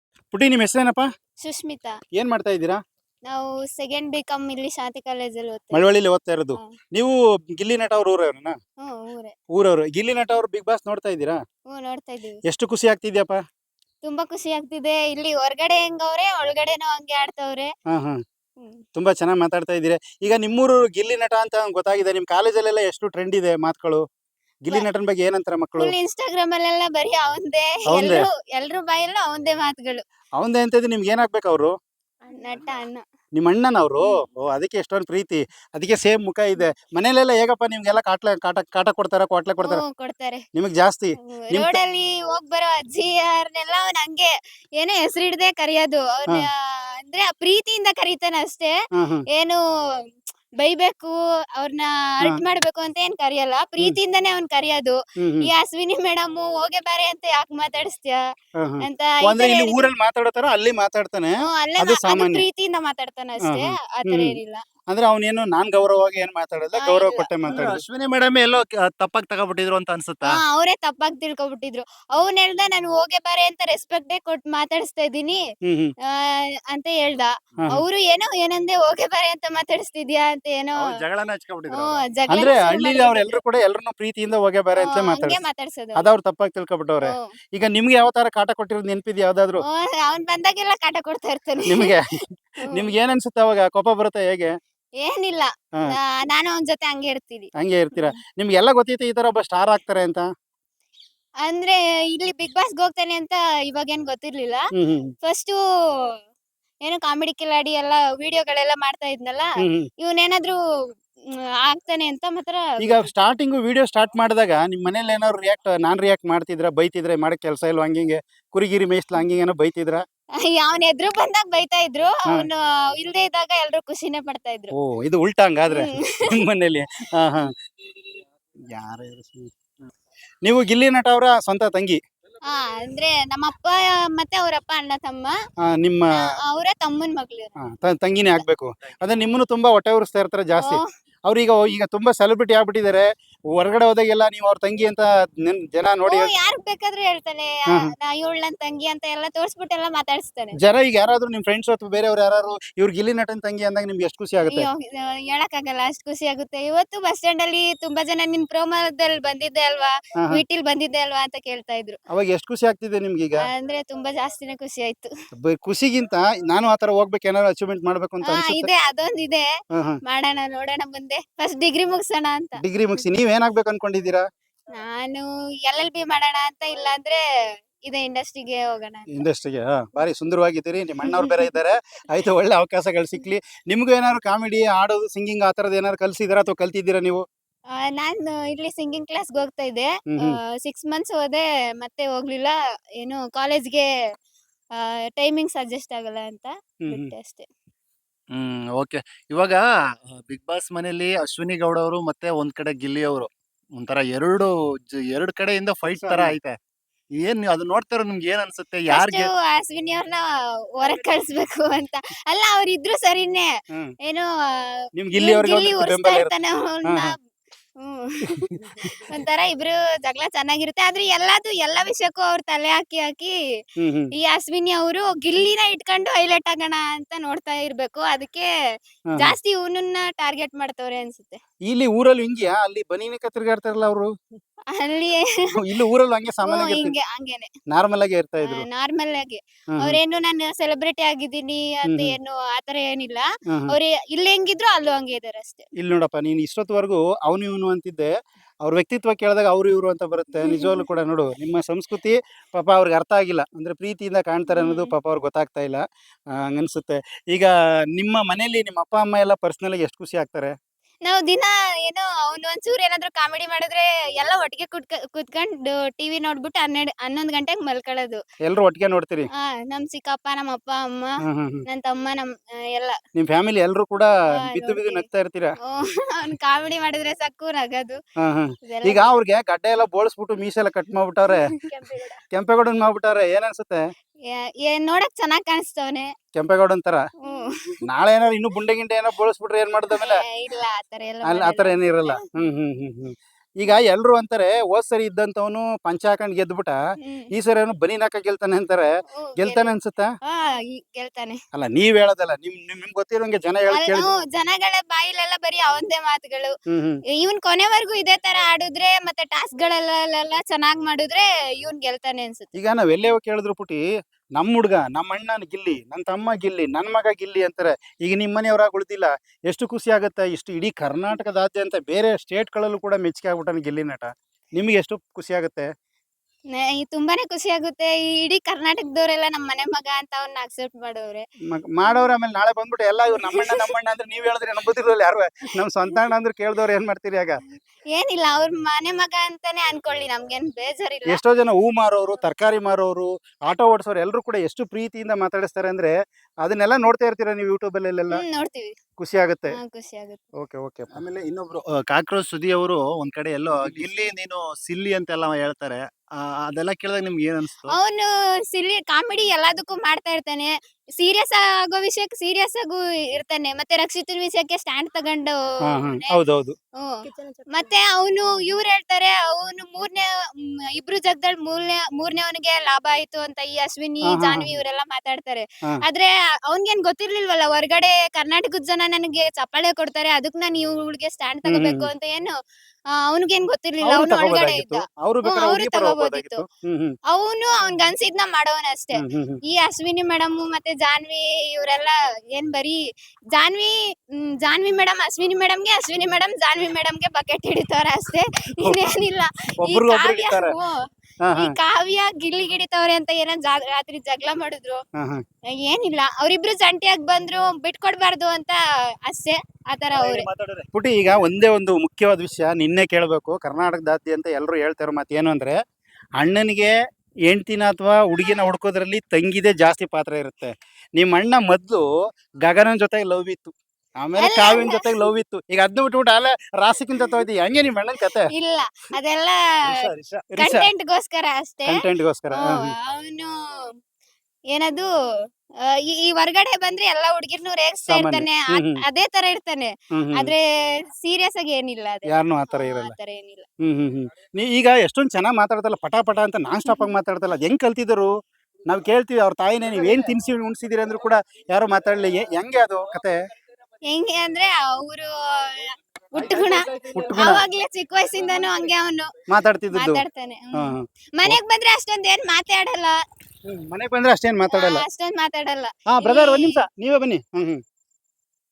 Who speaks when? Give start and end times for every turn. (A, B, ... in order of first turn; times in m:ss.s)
0:00.3-0:01.1 A
0:01.4-0:02.0 B
0:02.2-0:02.8 A
0:03.3-0:05.8 B
0:05.7-0:08.6 A
0:08.8-0:09.3 B
0:09.5-0:11.4 A
0:11.7-0:12.4 B
0:12.5-0:13.4 A
0:14.0-0:17.7 B
0:17.9-0:18.2 A
0:19.0-0:24.0 A
0:24.6-0:26.0 A
0:25.8-0:30.0 B
0:27.9-0:28.3 A
0:30.4-0:31.7 A
0:32.3-0:33.0 B
0:33.4-0:39.8 A
0:39.7-0:40.5 B
0:40.5-0:41.8 A
0:41.3-0:48.7 B
0:48.9-0:49.2 A
0:49.3-0:49.6 B
0:50.6-0:58.2 B
0:55.2-0:55.5 A
0:58.6-1:02.5 A
0:58.8-0:59.9 B
1:01.4-1:04.6 B
1:03.4-1:04.3 A
1:04.9-1:07.8 A
1:06.8-1:07.3 B
1:07.5-1:10.4 C
1:10.2-1:15.4 B
1:15.6-1:15.9 A
1:16.1-1:20.9 B
1:20.8-1:22.0 C
1:21.7-1:23.4 B
1:22.3-1:25.4 A
1:24.8-1:26.0 B
1:26.0-1:29.6 A
1:29.7-1:31.9 B
1:31.7-1:34.5 A
1:35.0-1:38.2 B
1:37.6-1:40.2 A
1:41.4-1:44.6 B
1:44.8-1:45.1 A
1:45.2-1:45.6 B
1:46.8-1:49.5 B
1:49.6-1:49.9 A
1:50.0-1:50.6 B
1:51.3-1:53.1 B
1:52.8-2:00.0 A
2:00.4-2:04.7 B
2:04.7-2:08.1 A
2:05.7-2:06.3 B
2:08.7-2:09.5 A
2:10.4-2:12.0 A
2:12.5-2:15.4 B
2:15.6-2:16.1 A
2:16.1-2:17.5 B
2:17.6-2:26.3 A
2:20.6-2:20.9 B
2:26.1-2:30.6 B
2:30.6-2:34.7 A
2:34.5-2:42.0 B
2:42.1-2:43.4 A
2:43.5-2:45.1 B
2:45.4-2:48.7 A
2:48.2-2:49.4 B
2:50.0-2:52.6 B
2:52.6-2:54.2 A
2:54.8-2:57.2 B
2:57.8-2:59.1 B
2:59.1-3:07.2 A
3:01.0-3:01.5 B
3:07.7-3:13.9 B
3:10.1-3:10.4 A
3:14.8-3:17.5 B
3:16.8-3:17.1 A
3:18.3-3:26.6 C
3:25.9-3:26.4 A
3:27.2-3:29.3 C
3:28.9-3:30.2 B
3:30.8-3:33.5 B
3:34.0-3:37.2 B
3:35.0-3:36.3 A
3:36.9-3:37.2 A
3:37.8-3:43.3 B
3:38.3-3:39.0 A
3:43.8-3:44.1 A
3:44.2-3:48.5 B
3:49.2-3:51.4 B
3:51.7-3:54.1 A
3:54.7-3:55.5 B
3:55.6-3:56.9 A
3:56.4-3:57.5 B
3:57.7-3:58.7 A
3:58.4-4:05.6 B
3:59.7-4:00.0 A
4:01.8-4:02.1 A
4:05.8-4:08.1 A
4:08.6-4:15.8 A
4:10.4-4:10.9 B
4:14.5-4:14.9 B
4:16.4-4:20.5 A
4:21.0-4:28.2 B
4:28.4-4:29.3 A
4:29.3-4:31.2 B
4:31.2-4:31.6 A
4:31.7-4:33.0 B
4:33.2-4:35.5 A
4:34.4-4:35.0 B
4:35.6-4:38.0 B
4:38.2-4:41.5 A
4:38.7-4:39.1 B
4:41.3-4:42.2 B
4:42.3-4:43.8 A
4:44.3-4:46.1 B
4:46.4-4:47.0 A
4:47.2-4:47.6 B
4:47.9-4:50.2 A
4:49.9-4:52.2 B
4:51.2-4:56.8 A
4:57.0-4:57.3 B
4:57.3-4:58.9 A
4:59.2-4:59.7 B
4:59.4-5:00.1 A
5:00.3-5:01.4 B
5:01.5-5:04.1 A
5:03.7-5:06.6 B
5:06.7-5:07.0 A
5:07.2-5:12.6 B
5:12.6-5:13.8 A
5:14.4-5:25.7 A
5:26.5-5:31.2 B
5:31.5-5:37.4 A
5:33.2-5:33.7 B
5:37.9-5:41.2 B
5:41.1-5:48.2 A
5:48.2-5:48.8 B
5:49.0-5:49.6 A
5:49.6-5:50.2 B
5:50.4-5:51.0 A
5:51.0-5:57.8 C
5:57.7-6:06.2 B
6:05.7-6:06.6 A
6:07.5-6:22.3 B
6:14.0-6:14.6 A
6:21.4-6:21.9 A
6:22.9-6:26.4 B
6:23.8-6:26.9 A
6:27.1-6:32.8 B
6:29.0-6:29.4 A
6:33.4-6:40.8 B
6:39.6-6:40.5 A
6:41.2-6:41.5 A
6:41.4-6:44.8 B
6:45.0-6:45.2 A
6:45.5-6:50.3 B
6:49.9-6:55.6 A
6:56.2-6:56.7 A
6:57.3-7:01.8 A
7:02.4-7:08.3 A
7:04.2-7:04.9 B
7:08.3-7:09.4 B
7:09.7-7:10.7 A
7:10.4-7:11.7 B
7:11.6-7:12.7 A
7:12.4-7:13.3 B
7:14.5-7:14.9 B
7:15.7-7:20.4 B
7:17.9-7:18.8 A
7:19.9-7:20.3 A
7:21.0-7:23.4 B
7:22.1-7:22.9 A
7:23.6-7:28.1 A
7:28.7-7:33.1 A
7:33.9-7:39.1 B
7:36.8-7:37.4 A
7:39.3-7:40.0 A
7:39.7-7:43.0 B
7:40.5-7:41.4 A
7:43.4-7:44.8 A
7:44.5-7:46.6 B
7:45.9-7:47.6 A